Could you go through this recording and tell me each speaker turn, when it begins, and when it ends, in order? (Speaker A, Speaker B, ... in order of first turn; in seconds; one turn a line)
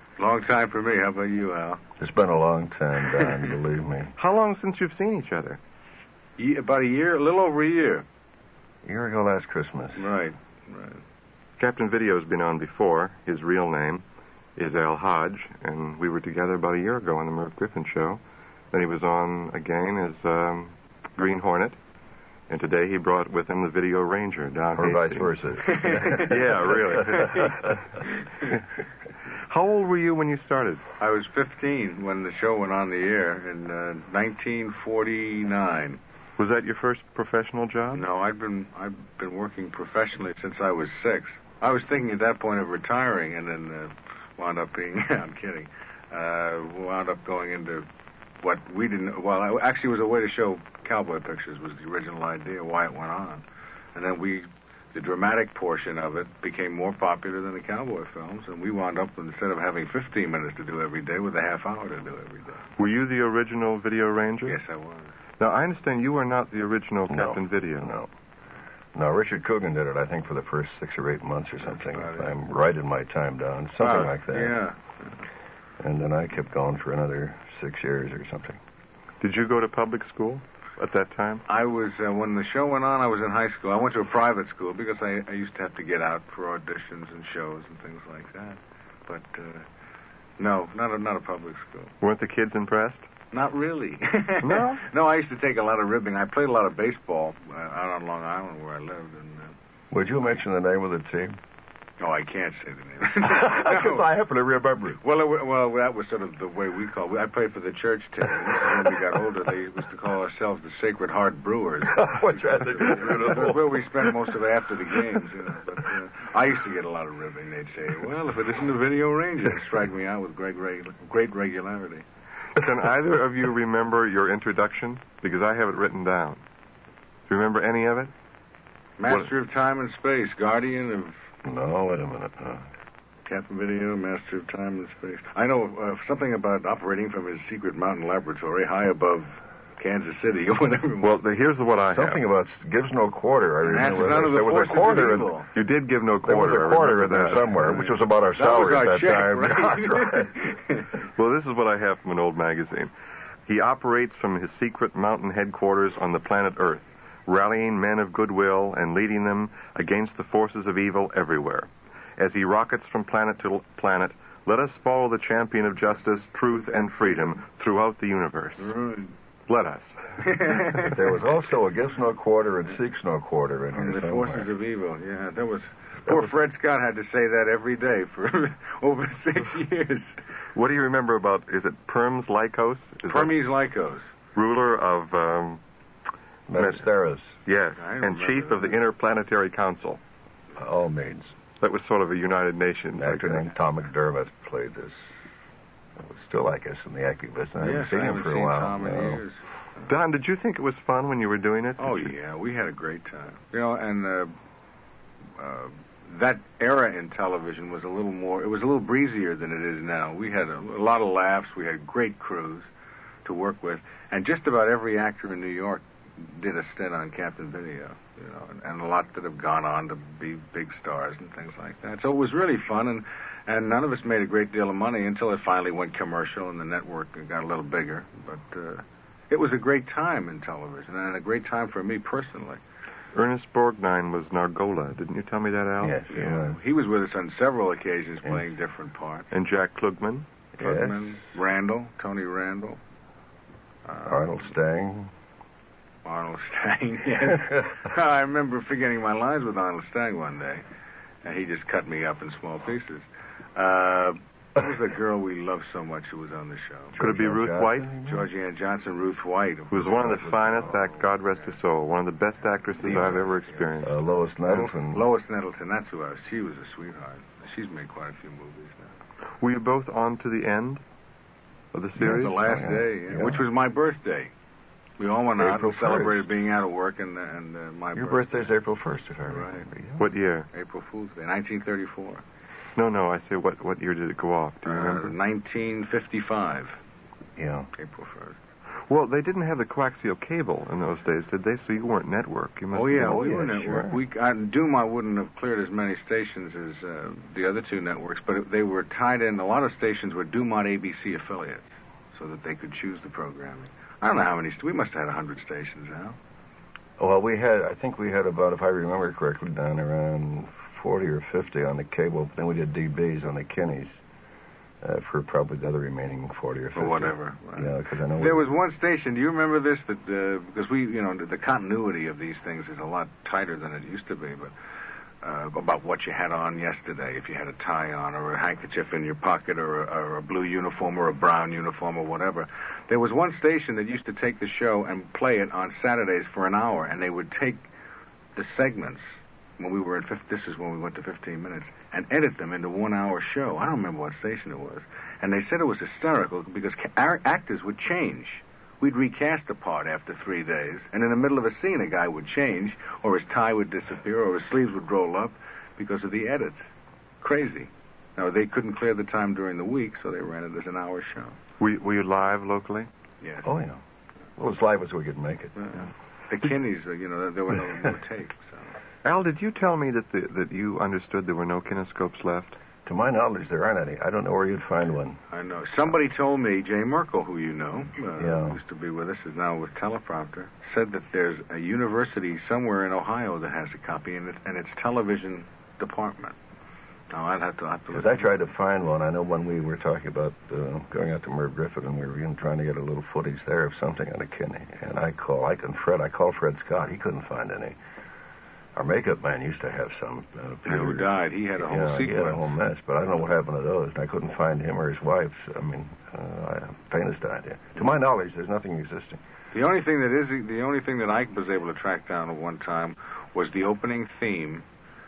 Speaker A: 0.2-1.8
Speaker B: 2.0-4.1
Speaker C: 4.2-5.6
Speaker A: 6.4-8.1
Speaker B: 8.8-10.1
Speaker A: 9.9-11.0
Speaker C: 11.6-14.0
Speaker C: 14.6-18.2
Speaker C: 18.7-21.8
Speaker C: 22.5-27.8
Speaker B: 24.7-27.6
Speaker A: 25.6-26.3
Speaker A: 27.1-27.5
Speaker C: 29.5-30.8
Speaker A: 31.0-36.0
Speaker C: 36.4-38.0
Speaker A: 37.9-47.9
Speaker A: 48.4-53.4
Speaker A: 53.9-62.6
Speaker C: 62.8-64.6
Speaker A: 64.5-65.1
Speaker C: 65.4-67.9
Speaker B: 67.1-68.1
Speaker B: 68.9-74.6
Speaker A: 71.7-72.3
Speaker A: 73.8-75.2
Speaker B: 75.8-78.6
Speaker C: 79.2-81.4
Speaker A: 81.5-89.7
Speaker A: 90.4-91.9
Speaker C: 92.0-93.1
Speaker A: 93.3-99.5
Speaker C: 94.4-94.8
Speaker B: 99.9-101.4
Speaker A: 102.0-104.0
Speaker B: 103.2-105.0
Speaker A: 105.0-122.0
Speaker B: 111.8-114.3
Speaker C: 122.5-126.4
Speaker C: 127.3-128.1
Speaker A: 129.0-131.2
Speaker B: 131.4-132.7
Speaker A: 133.2-141.2
Speaker C: 141.0-142.2
Speaker B: 141.9-145.3
Speaker A: 143.6-145.5
Speaker C: 145.5-147.8
Speaker B: 146.2-150.4
Speaker A: 148.3-150.9
Speaker C: 151.1-152.9
Speaker C: 153.5-168.7
Speaker A: 166.7-167.3
Speaker A: 168.6-169.1
Speaker C: 169.5-170.1
Speaker A: 170.2-171.0
Speaker B: 170.7-174.5
Speaker A: 173.7-180.1
Speaker C: 180.5-183.3
Speaker A: 183.0-184.1
Speaker C: 184.3-185.6
Speaker B: 186.5-187.3
Speaker C: 186.5-186.8
Speaker C: 187.4-190.0
Speaker A: 187.8-188.8
Speaker B: 190.6-191.3
Speaker C: 191.6-193.5
Speaker B: 192.9-195.0
Speaker B: 196.0-199.2
Speaker A: 197.6-199.9
Speaker C: 199.9-202.1
Speaker A: 201.8-204.3
Speaker A: 205.4-212.7
Speaker A: 213.2-232.6
Speaker C: 233.1-236.0
Speaker B: 235.8-236.6
Speaker A: 236.1-239.3
Speaker B: 238.2-238.5
Speaker C: 239.3-240.3
Speaker B: 240.6-241.0
Speaker A: 240.6-242.8
Speaker A: 243.8-244.3
Speaker B: 244.0-245.1
Speaker A: 246.0-250.6
Speaker A: 251.2-256.9
Speaker B: 256.9-258.3
Speaker C: 256.9-257.9
Speaker A: 258.1-261.0
Speaker C: 259.7-264.0
Speaker B: 260.3-260.7
Speaker A: 262.8-263.7
Speaker B: 262.8-263.2
Speaker B: 263.8-265.0
Speaker A: 264.5-268.9
Speaker C: 269.4-270.8
Speaker C: 271.7-272.4
Speaker B: 272.0-273.4
Speaker A: 272.0-274.3
Speaker A: 275.0-278.5
Speaker B: 275.4-276.3
Speaker B: 277.9-280.1
Speaker A: 279.3-279.6
Speaker C: 280.0-280.5
Speaker A: 280.5-282.2
Speaker C: 282.8-285.1
Speaker A: 284.6-286.8
Speaker B: 287.4-287.7
Speaker A: 287.8-288.4
Speaker C: 288.9-293.3
Speaker A: 292.7-306.2
Speaker B: 292.9-294.0
Speaker B: 307.0-313.9
Speaker B: 314.8-318.5
Speaker A: 316.7-324.5
Speaker A: 325.2-337.7
Speaker A: 338.3-356.7
Speaker A: 357.2-361.4
Speaker C: 361.6-362.9
Speaker A: 363.2-363.5
Speaker B: 363.4-363.8
Speaker B: 364.4-365.7
Speaker A: 365.6-368.7
Speaker C: 369.0-372.6
Speaker B: 372.8-375.2
Speaker A: 375.3-386.4
Speaker B: 378.2-378.6
Speaker A: 387.1-388.3
Speaker B: 387.9-397.8
Speaker B: 398.8-409.2
Speaker A: 400.6-402.5
Speaker A: 409.5-414.6